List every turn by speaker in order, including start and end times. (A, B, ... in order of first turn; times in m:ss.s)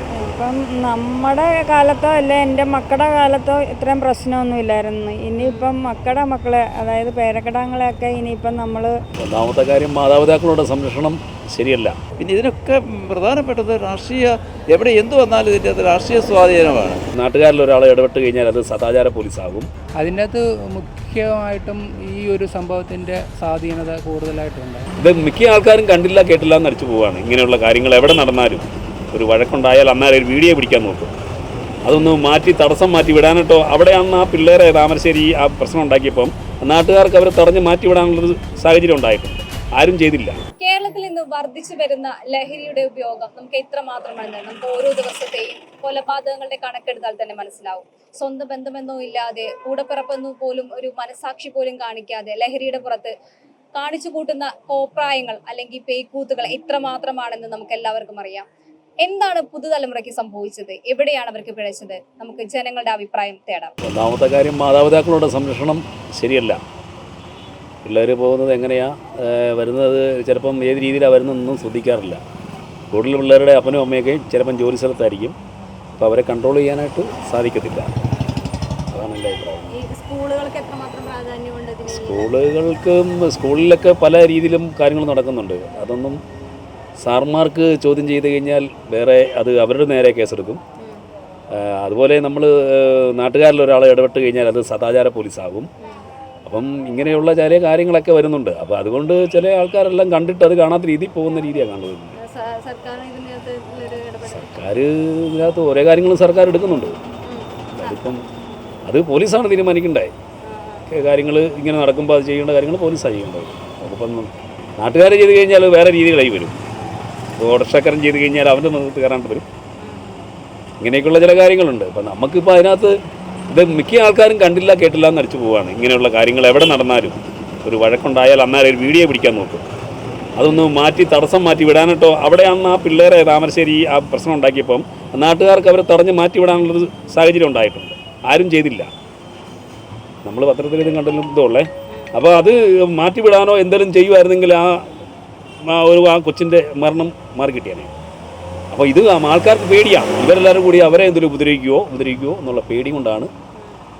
0:00.2-0:08.9 A
0:05.4-0:05.7 B
0:09.2-0:12.0 C
0:12.2-0:17.0 D
0:17.1-0:19.7 C
0:20.0-0:24.9 E
0:25.0-0:31.1 C
0:31.8-0:40.4 C
0:40.6-0:53.1 B
0:53.7-0:58.4 B
0:59.0-1:03.7 B
1:03.8-1:06.6 C
1:07.8-1:12.2 C
1:12.9-1:15.3 C
1:16.0-1:17.9 C
1:18.1-1:18.5 B
1:18.9-1:19.8 C
1:19.7-1:22.3 B
1:21.9-1:26.2 C
1:27.0-1:30.6 C
1:31.5-1:35.7 C
1:35.8-1:36.1 B
1:36.4-1:42.1 C
1:42.2-1:44.6 B
1:44.2-1:47.0 C
1:47.2-1:48.0 B
1:47.8-1:48.2 C
1:48.8-1:50.1 C
1:50.4-1:50.8 B
1:50.9-1:56.6 C
1:56.8-1:57.0 B
1:57.4-1:59.4 C
1:59.8-2:00.3 B
2:00.8-2:02.9 C
2:03.5-2:09.6 C
2:10.4-2:18.9 C
2:20.2-2:24.8 C
2:25.7-2:27.9 C
2:28.7-2:33.3 C